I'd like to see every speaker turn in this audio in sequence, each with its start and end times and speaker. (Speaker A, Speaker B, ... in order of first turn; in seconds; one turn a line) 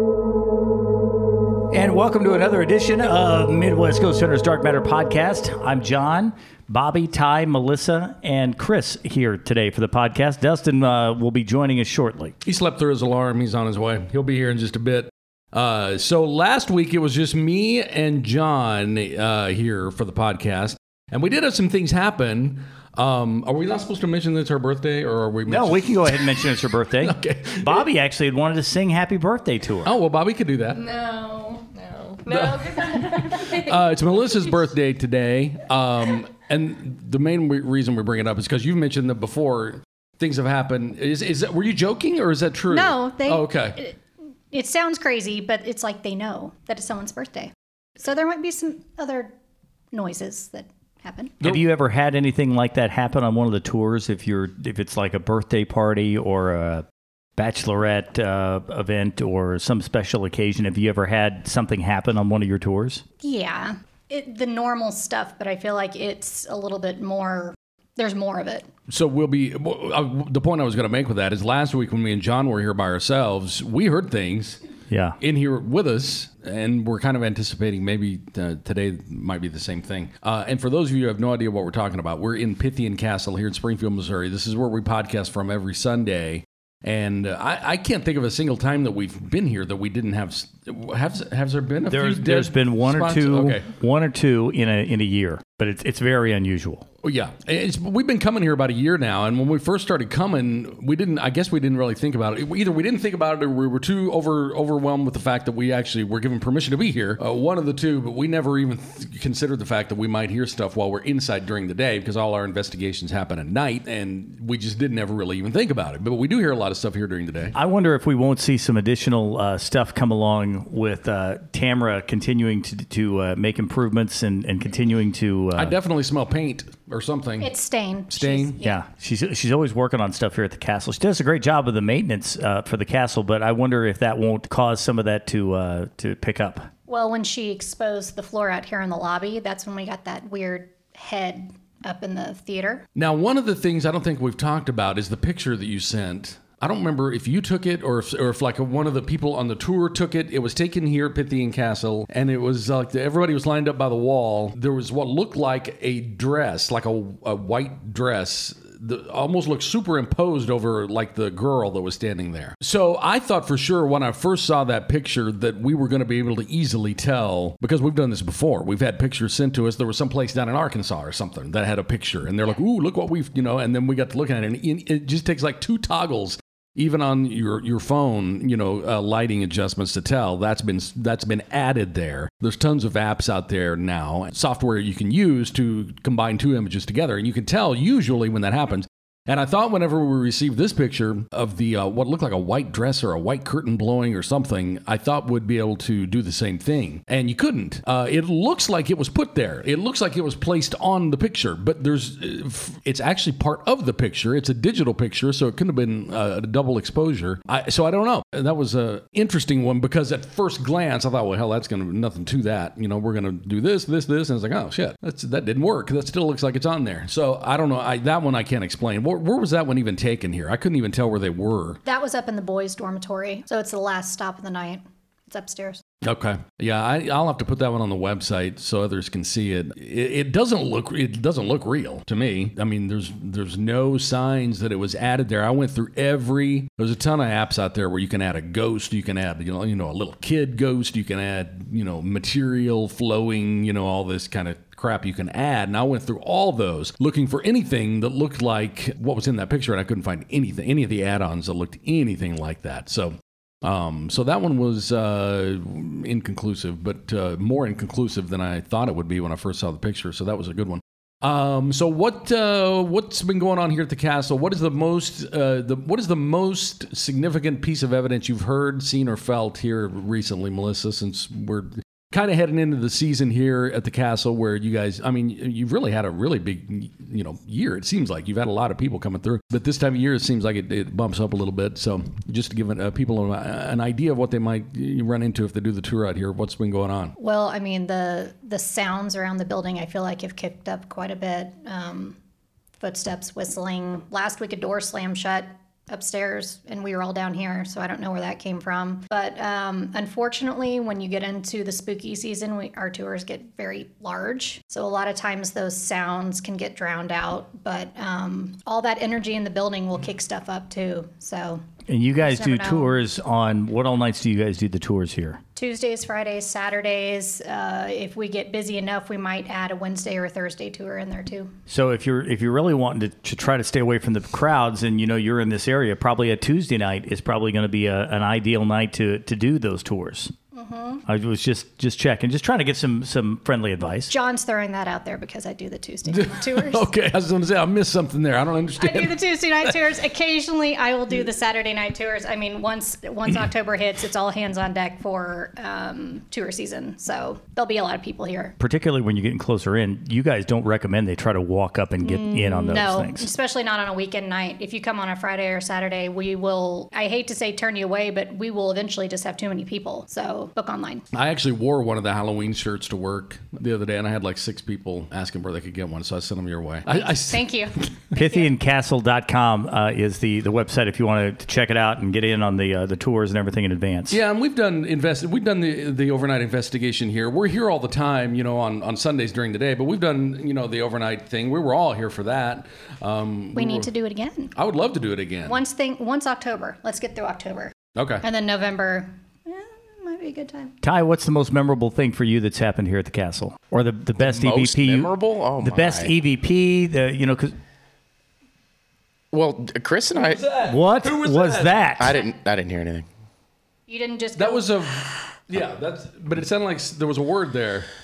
Speaker A: 1.7-12.3
Speaker B: 12.4-27.9
Speaker A: 25.5-29.9
Speaker B: 29.8-30.8
Speaker C: 30.7-33.8
Speaker B: 32.3-43.8
Speaker D: 42.7-44.0
Speaker D: 44.5-49.3
Speaker D: 49.9-51.3
Speaker A: 51.4-56.8
Speaker A: 57.4-63.0
Speaker D: 63.2-68.7
Speaker B: 68.9-74.6
Speaker A: 74.9-75.2
Speaker B: 75.2-93.6
Speaker A: 91.9-96.8
Speaker B: 97.0-117.5
Speaker A: 117.5-125.8
Speaker B: 125.5-127.5
Speaker D: 127.4-128.8
Speaker B: 128.1-128.6
Speaker A: 128.6-136.7
Speaker D: 136.9-142.8
Speaker B: 142.9-221.8
Speaker D: 221.8-225.8
Speaker B: 226.0-287.1
Speaker D: 287.2-292.2
Speaker D: 292.8-311.6
Speaker A: 311.9-315.4
Speaker D: 312.2-313.0
Speaker D: 315.5-321.5
Speaker A: 321.7-330.3
Speaker D: 330.5-331.0
Speaker A: 331.1-334.1
Speaker D: 334.1-336.9
Speaker B: 336.1-339.8
Speaker D: 338.8-348.6
Speaker A: 348.6-353.3
Speaker D: 352.0-361.0
Speaker B: 361.1-367.5
Speaker D: 366.9-368.5
Speaker A: 368.1-374.2
Speaker B: 374.1-383.9
Speaker D: 383.5-384.5
Speaker B: 384.6-385.6
Speaker D: 385.4-390.7
Speaker B: 387.9-388.2
Speaker A: 390.8-397.5
Speaker E: 394.2-396.1
Speaker E: 399.3-400.4
Speaker B: 400.1-401.9
Speaker A: 400.6-402.1
Speaker E: 402.0-403.1
Speaker D: 403.9-405.1
Speaker B: 404.4-407.9